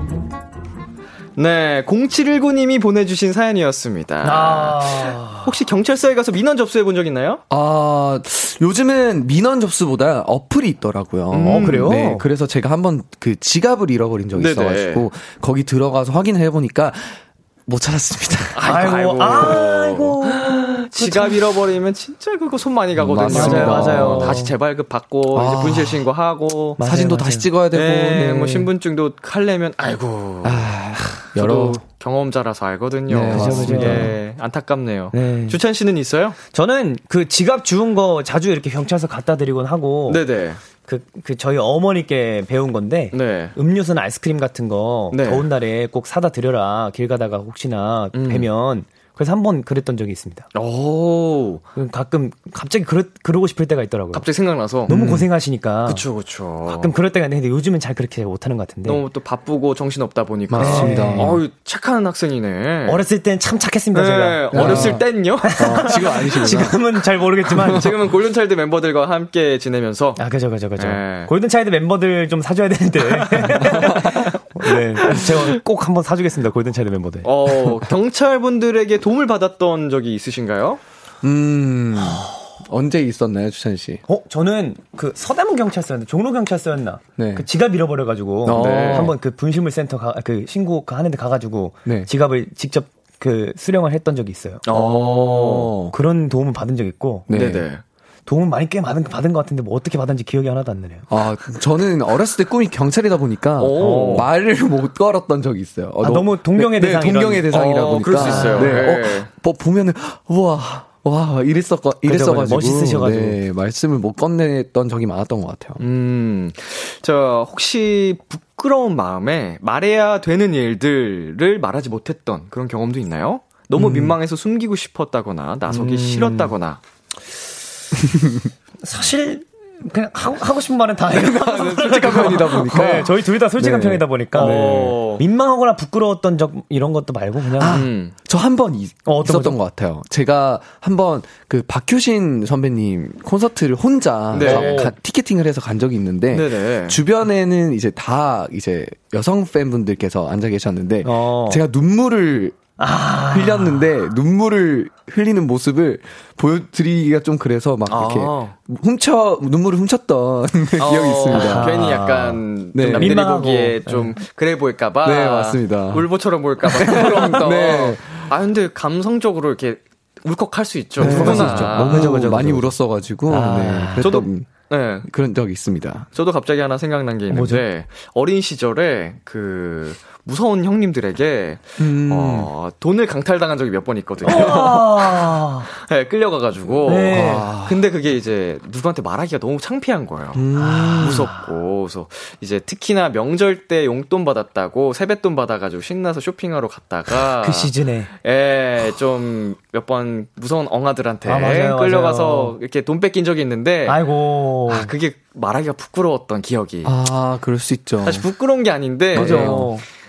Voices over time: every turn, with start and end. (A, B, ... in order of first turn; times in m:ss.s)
0:01.4-0:07.4 A
0:04.2-0:05.5 B
0:07.5-0:18.7 C
0:11.3-0:12.0 A
0:11.4-0:12.3 B
0:14.4-0:15.1 A
0:18.6-0:26.8 A
0:18.6-0:21.4 B
0:23.0-0:24.4 C
0:23.2-0:24.5 B
0:25.3-0:26.0 C
0:26.8-0:27.5 B
0:26.8-0:28.7 C
0:27.7-0:36.4 A
0:30.4-0:31.8 C
0:33.1-0:34.1 C
0:33.3-0:34.1 B
0:35.1-0:35.6 B
0:36.5-0:40.2 B
0:40.1-0:40.6 A
0:40.8-0:50.4 B
0:43.1-0:43.5 A
0:45.1-0:45.5 A
0:48.1-0:48.5 A
0:50.5-0:51.6 A
0:51.8-0:54.3 B
0:54.1-0:54.9 A
0:54.9-0:56.0 B
0:54.9-0:55.3 C
0:55.9-0:56.9 A
0:56.7-0:59.0 B
0:58.8-1:03.0 A
1:00.5-1:01.4 C
1:00.6-1:01.4 B
1:02.9-1:07.9 B
1:03.9-1:05.9 A
1:04.5-1:05.0 C
1:05.6-1:06.8 C
1:07.5-1:07.9 C
1:07.7-1:10.2 A
1:10.2-1:17.3 B
1:10.8-1:11.3 A
1:13.4-1:13.9 A
1:17.2-1:20.8 A
1:21.2-1:24.0 C
1:22.0-1:22.3 B
1:24.1-1:35.2 B
1:27.2-1:27.4 C
1:28.4-1:29.2 C
1:28.6-1:29.1 A
1:34.7-1:35.7 A
1:34.8-1:35.9 C
1:35.9-1:37.3 B
1:37.3-1:37.7 C
1:37.3-1:37.8 A
1:38.3-1:41.1 B
1:41.1-1:55.8 C
1:43.6-1:44.3 A
1:43.8-1:44.3 B
1:46.0-1:47.5 B
1:47.5-1:49.3 A
1:48.2-1:48.8 B
1:52.0-1:53.4 B
1:55.8-2:06.8 A
2:03.8-2:04.2 C
2:05.9-2:06.5 B
2:08.0-2:08.5 C
2:08.8-2:17.8 B
2:11.1-2:15.0 C
2:14.4-2:15.2 A
2:17.6-2:32.6 C
2:17.6-2:18.1 A
2:19.1-2:19.6 B
2:24.3-2:24.9 A
2:24.4-2:24.9 B
2:26.3-2:27.0 A
2:31.0-2:31.6 B
2:32.8-2:33.9 B
2:33.3-2:42.0 C
2:37.9-2:38.5 A
2:40.8-2:52.2 A
2:41.3-2:44.1 B
2:42.7-2:43.2 C
2:45.0-2:46.1 C
2:46.6-2:48.3 C
2:51.0-2:54.5 C
2:51.0-2:52.8 B
2:53.3-2:54.1 B
2:54.0-2:55.1 A
2:55.0-2:56.1 C
2:56.2-3:17.7 A
2:57.3-2:57.6 B
3:01.8-3:02.5 C
3:04.2-3:05.7 B
3:06.8-3:07.5 B
3:07.1-3:07.8 C
3:10.3-3:11.3 C
3:10.6-3:11.5 B
3:17.3-3:18.1 B
3:18.2-3:24.0 A
3:21.3-3:22.6 B
3:23.9-3:24.9 B
3:24.7-3:27.0 A
3:26.8-3:28.2 C
3:28.0-3:29.7 A
3:29.1-3:29.7 C
3:29.2-3:29.8 B